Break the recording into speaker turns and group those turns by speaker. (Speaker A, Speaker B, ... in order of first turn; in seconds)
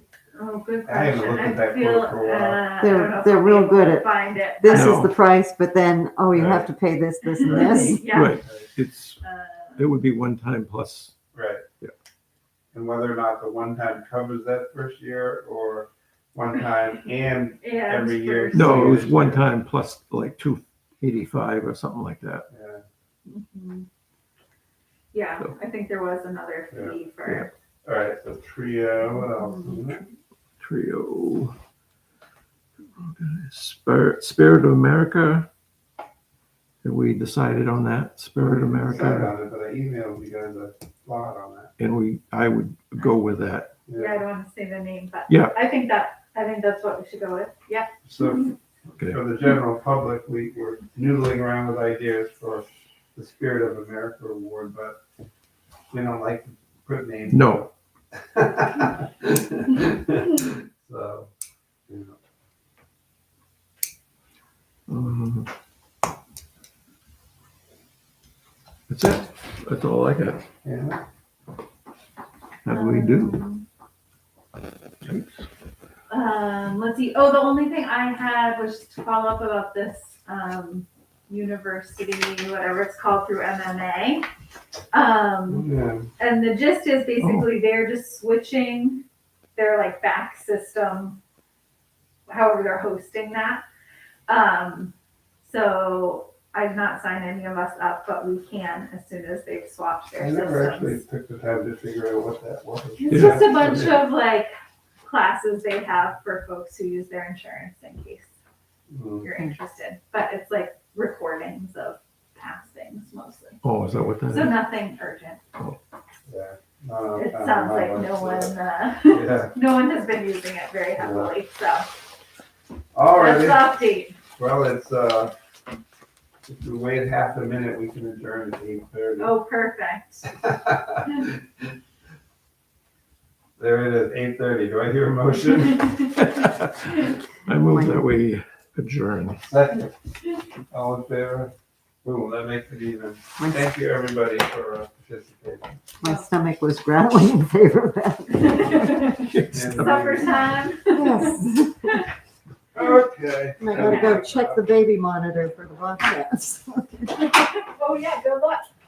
Speaker A: 0.3-5.1, 7.3-8.4, 9.2-9.9, 17.6-19.0, 23.3-23.9, 25.1-27.5, 29.2-29.9, 44.0-48.4, 72.7-73.7, 76.1-84.3, 84.9-85.7, 86.2-89.0, 89.6-91.2, 92.3-93.6, 94.3-101.0, 103.0-104.5, 105.0-108.3, 109.2-113.6, 114.3-115.4, 117.2-121.9, 123.1-124.2, 129.2-130.3, 148.4-152.0, 153.8-154.2, 157.2-158.7
Speaker B: 0.8-2.7, 6.3-6.7, 7.5-8.7, 11.3-11.6, 12.7-19.5, 22.5-22.9, 26.7-27.0, 27.9-30.1, 38.4-41.7, 43.9-44.2, 48.0-48.5, 49.1-55.0, 55.9-61.3, 61.9-62.2, 70.6-71.0, 85.5-86.1, 100.2-104.0, 108.9-109.3, 116.3-118.5, 119.0-119.5, 121.0-121.3, 122.9-123.7, 124.4-125.3, 126.5-129.4, 130.3-131.4, 133.6-136.2, 139.3-140.0, 140.6-141.5, 142.0-145.8, 149.5-150.7, 152.7-154.6
Speaker C: 2.8-8.0, 137.7-138.1, 143.4-143.7, 146.0-149.1, 150.9-152.0, 153.6-157.1
Speaker D: 4.7-5.1, 8.0-9.2, 9.8-11.2, 18.5-22.5, 30.6-31.6, 33.0-35.5, 36.8-39.4, 41.8-43.7, 45.3-45.6, 57.3-57.6, 64.9-65.5, 68.9-70.4, 72.7-73.4, 75.0-75.5, 87.2-87.5, 103.1-103.9, 113.6-114.6, 136.2-139.4, 149.2-150.1